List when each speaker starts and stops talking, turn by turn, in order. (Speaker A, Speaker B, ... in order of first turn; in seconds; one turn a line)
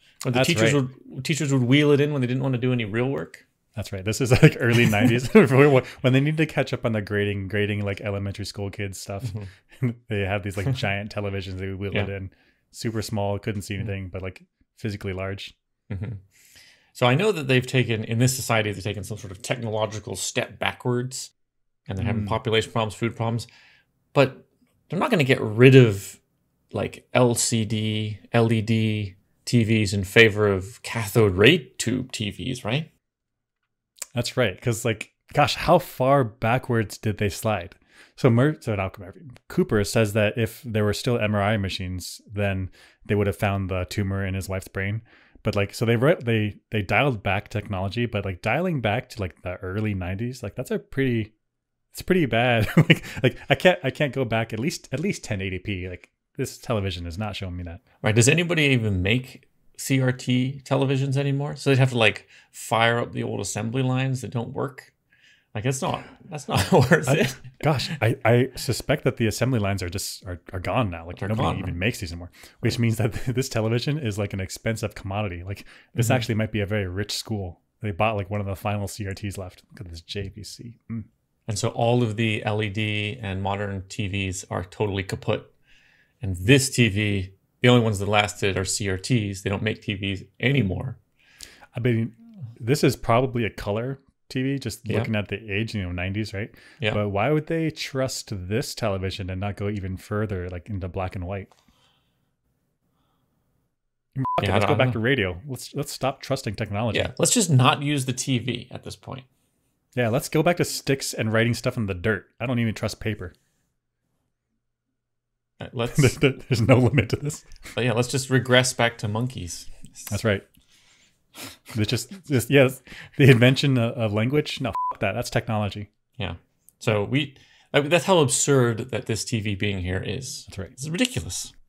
Speaker A: 0.2-3.5
Speaker B: 0.3-0.8
Speaker B: 3.8-15.6
Speaker A: 9.2-9.5
Speaker A: 15.9-16.2
Speaker A: 16.9-21.3
Speaker A: 21.9-23.5
Speaker B: 22.0-22.4
Speaker A: 24.1-26.2
Speaker A: 26.7-32.9
Speaker B: 34.1-51.3
Speaker B: 51.9-57.8
Speaker A: 58.0-64.9
Speaker A: 65.5-67.5
Speaker B: 67.1-81.0
Speaker A: 71.2-71.8
Speaker A: 76.0-76.2
Speaker A: 81.5-85.5
Speaker A: 86.2-91.0
Speaker B: 91.7-101.5
Speaker B: 104.2-107.1
Speaker A: 104.4-105.0
Speaker A: 106.9-109.3
Speaker B: 110.0-113.3
Speaker A: 115.6-116.2
Speaker B: 115.9-117.5
Speaker A: 117.8-120.1
Speaker B: 120.1-120.4
Speaker B: 121.7-125.9
Speaker A: 126.2-131.5
Speaker B: 130.5-130.7